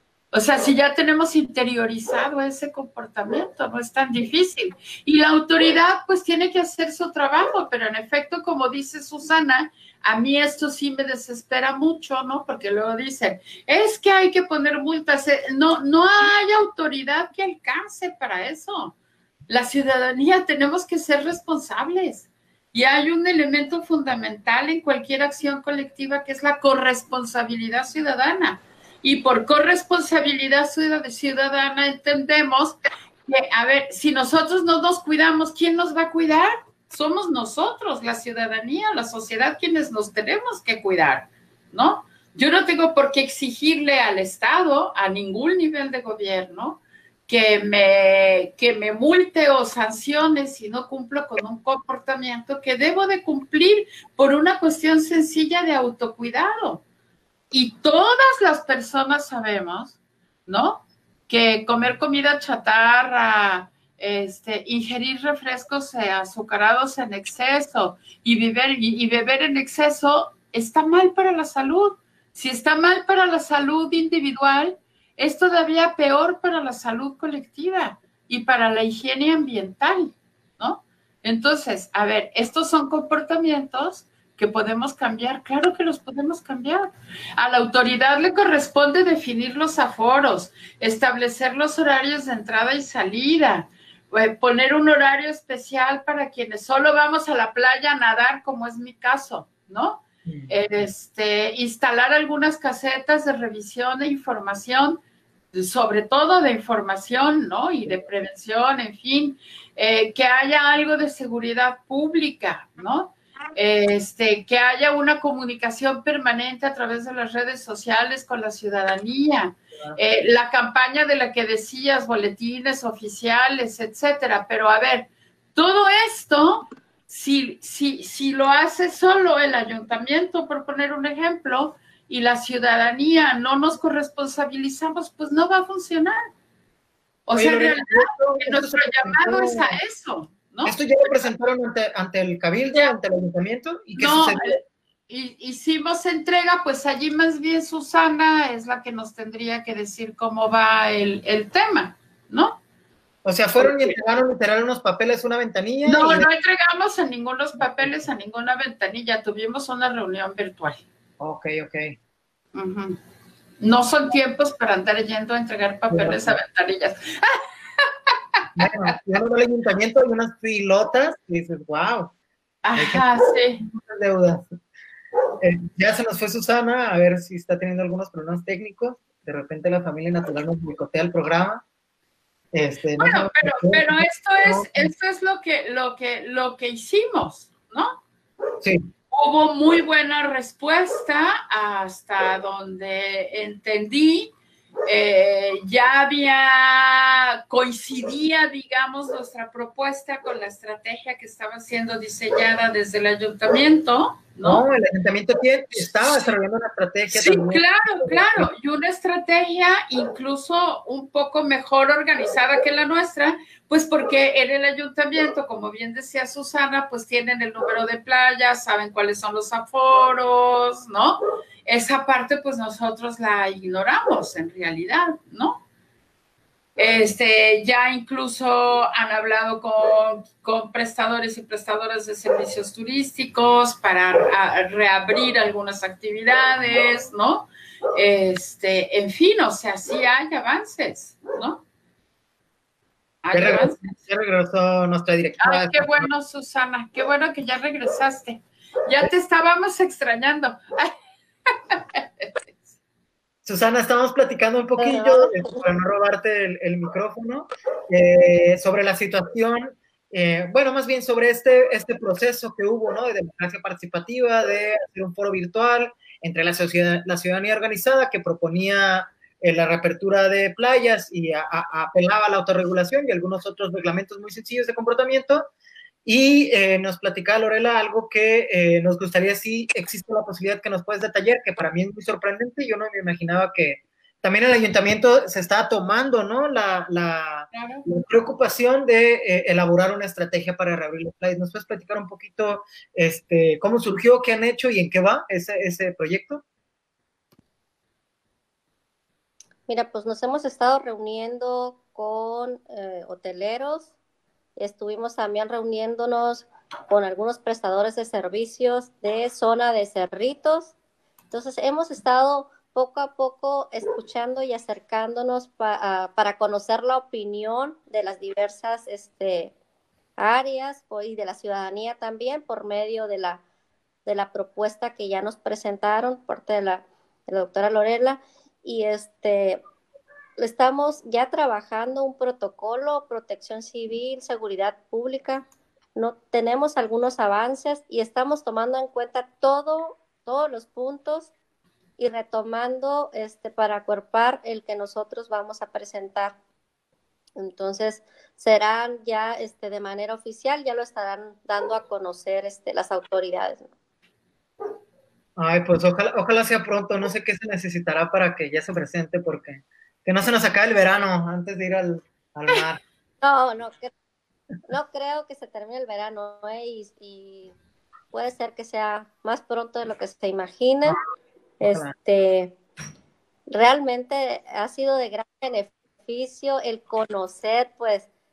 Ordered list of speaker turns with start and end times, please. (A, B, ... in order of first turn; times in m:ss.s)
0:00.3-0:19.0 A
0:19.5-0:56.8 A
0:57.5-1:45.0 A
1:40.3-1:40.5 B
1:45.5-2:16.2 A
2:17.3-2:21.3 A
2:17.3-2:19.8 B
2:20.6-2:24.6 B
2:24.0-2:32.6 A
2:33.2-2:36.3 B
2:33.6-2:34.0 A
2:35.8-2:40.8 A
2:37.6-2:38.1 B
2:41.2-2:41.9 B
2:42.5-2:43.0 A
2:43.6-2:48.9 A
2:45.9-2:46.4 B
2:48.6-2:52.1 B
2:52.6-2:53.6 A
2:52.8-2:53.0 B
2:53.6-2:54.5 B
2:55.4-3:01.6 B
3:02.5-3:04.9 B
3:03.0-3:08.0 A
3:08.6-3:08.9 B
3:09.1-3:14.3 A
3:14.9-3:24.6 A
3:24.4-3:28.5 B
3:25.8-3:26.3 A
3:27.1-3:45.6 A
3:46.8-4:01.6 A
4:03.2-4:03.8 A
4:03.3-4:06.1 B
4:05.4-4:10.9 A
4:11.5-4:12.6 A
4:13.4-4:35.5 B
4:14.8-4:15.7 C
4:36.0-4:56.4 B
4:47.5-4:47.9 A
4:59.7-5:03.9 C
5:04.6-5:10.7 C
5:11.3-5:19.5 C
5:20.2-5:23.4 C
5:24.0-5:29.6 C
5:30.4-5:35.4 C
5:36.0-5:41.3 C
5:42.0-5:46.4 C
5:47.4-5:53.7 C
5:55.4-6:02.8 B
6:03.2-6:03.9 C
6:04.7-6:07.5 C
6:08.1-6:11.0 C
6:11.6-6:11.9 B
6:11.6-6:12.6 C
6:13.5-6:18.1 C